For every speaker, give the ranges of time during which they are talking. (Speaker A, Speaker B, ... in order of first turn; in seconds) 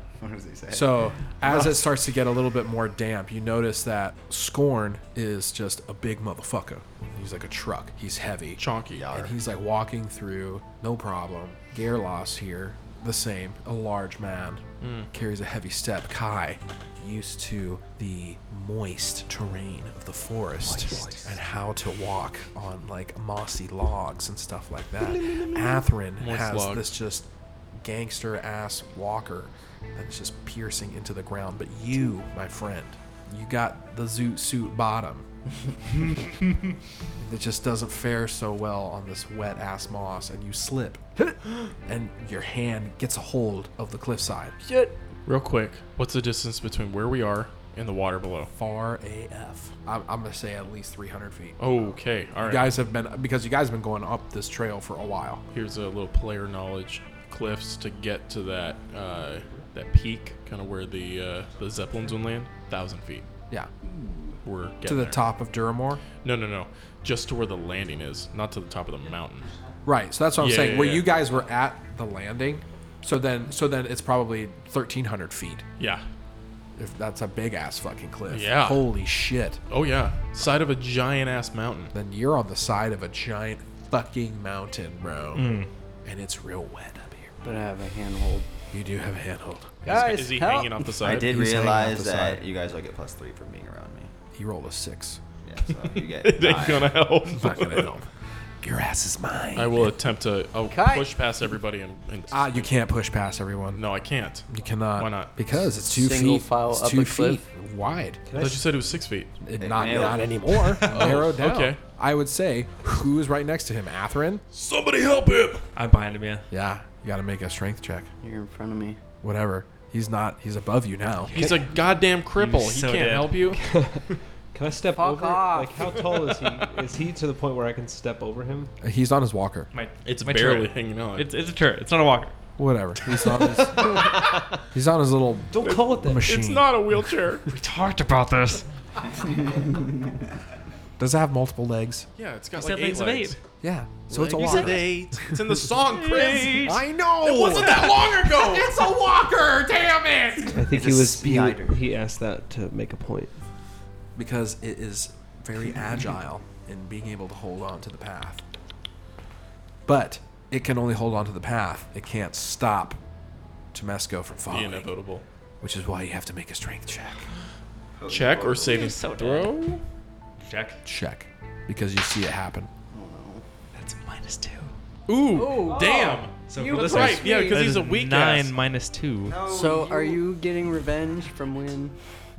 Speaker A: 0.2-1.7, 8.9-9.3, 91.0-94.1, 95.4-97.0, 109.6-110.5, 150.7-151.8, 168.0-168.9, 179.2-180.2
Speaker B: 0.7-35.2, 37.2-44.5, 48.5-55.4, 64.8-66.0, 69.8-75.6, 76.8-79.6, 81.9-87.3, 88.7-90.0, 91.0-92.4, 94.3-95.2, 97.3-98.1, 98.6-99.9, 102.3-103.8, 104.5-108.2, 109.4-114.4, 116.5-118.1, 119.2-121.5, 128.8-129.7, 132.6-136.7, 141.0-142.1, 143.6-145.4, 146.6-150.6, 154.1-158.4, 159.8-163.0, 163.7-164.9, 165.6-167.3, 170.8-172.7
Speaker C: 8.6-9.2, 14.8-15.1, 26.2-26.9, 45.2-48.5, 51.6-52.8, 55.5-63.2, 64.4-65.2, 66.2-69.5, 70.4-71.1, 75.8-76.0, 78.3-78.9, 79.7-81.9, 89.8-91.3, 96.1-97.9, 99.5-102.8, 103.8-105.6, 108.4-109.3, 110.8-111.8, 114.5-115.6, 121.3-123.6, 130.0-131.3, 136.2-137.4, 142.2-143.3, 144.1-148.7, 164.5-165.2, 168.1-169.8, 175.1-178.6
Speaker D: 20.8-21.2, 85.3-85.7, 115.7-116.5, 121.3-121.8, 122.3-123.6, 129.7-132.3, 133.8-134.1, 137.5-138.7, 142.5-143.4, 144.3-144.9, 145.8-146.8, 168.6-169.6, 170.4-170.8, 173.7-174.7, 175.7-179.4
Speaker E: 44.6-44.9, 87.4-88.5, 89.8-90.8, 100.7-101.1, 105.9-107.4, 118.2-119.0, 124.9-126.0, 172.9-173.4, 175.3-176.6, 179.5-182.0
Speaker F: 108.2-108.7, 109.8-111.2, 123.6-128.7, 135.5-136.3, 150.5-153.4